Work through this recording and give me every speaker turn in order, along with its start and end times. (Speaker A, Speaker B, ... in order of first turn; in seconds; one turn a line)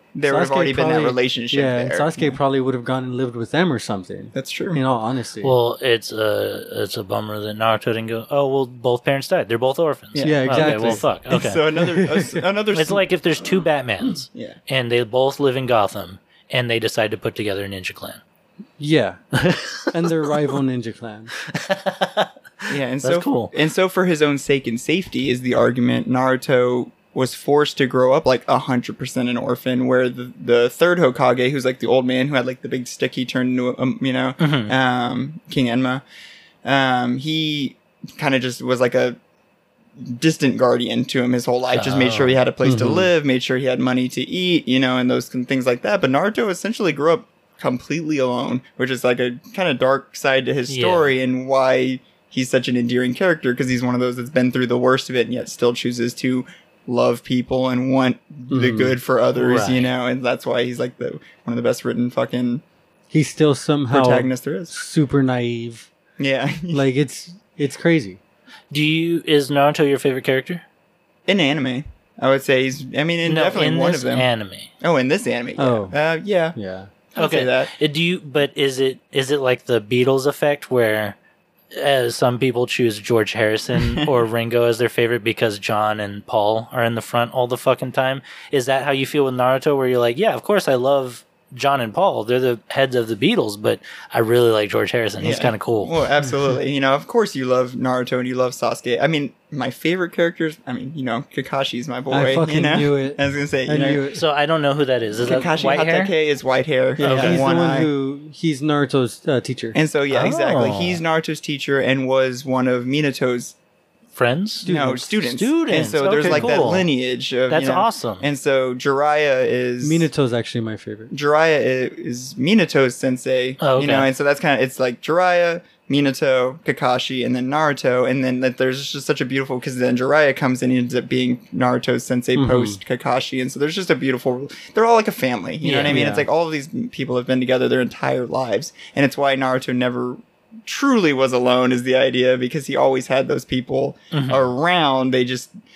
Speaker A: 0.1-2.4
Speaker B: 0.2-5.5
Speaker A: 4.3-4.8
Speaker C: 5.4-11.6
Speaker A: 10.1-13.1
Speaker B: 10.2-11.1
Speaker B: 11.7-12.4
Speaker C: 12.7-18.2
Speaker B: 18.8-19.2
Speaker C: 19.4-19.9
Speaker B: 19.8-21.3
Speaker C: 21.4-23.5
Speaker A: 22.7-36.0
Speaker C: 34.4-34.7
Speaker A: 36.6-39.2
Speaker A: 40.0-62.6
Speaker C: 41.7-42.4
Speaker B: 42.6-43.1
Speaker C: 50.7-51.1
Speaker B: 58.5-59.0
Speaker C: 59.3-59.9
Speaker B: 63.1-65.9
Speaker A: 63.9-64.8
Speaker A: 66.2-66.8
Speaker B: 66.7-68.2
Speaker C: 68.7-70.6
Speaker A: 71.3-74.3
Speaker C: 73.2-74.7
Speaker A: 74.8-76.5
Speaker B: 75.6-75.9
Speaker B: 76.5-76.9
Speaker A: 77.1-77.7
Speaker C: 77.2-81.2
Speaker C: 81.7-96.0
Speaker A: 83.8-84.1
Speaker A: 95.2-104.0
Speaker B: 102.1-104.2
Speaker C: 104.1-106.1
Speaker A: 105.2-107.9
Speaker B: 107.0-109.8
Speaker C: 107.0-107.4
Speaker A: 109.7-113.5
Speaker C: 110.1-111.0
Speaker C: 114.1-116.9
Speaker B: 114.6-115.1
Speaker A: 114.6-120.1
Speaker B: 116.1-116.5
Speaker C: 117.5-118.2
Speaker B: 119.8-121.1
Speaker A: 121.1-145.5
Speaker C: 123.6-124.1
Speaker B: 132.3-132.8
Speaker C: 135.6-136.0
Speaker B: 135.9-136.2
Speaker C: 144.1-144.5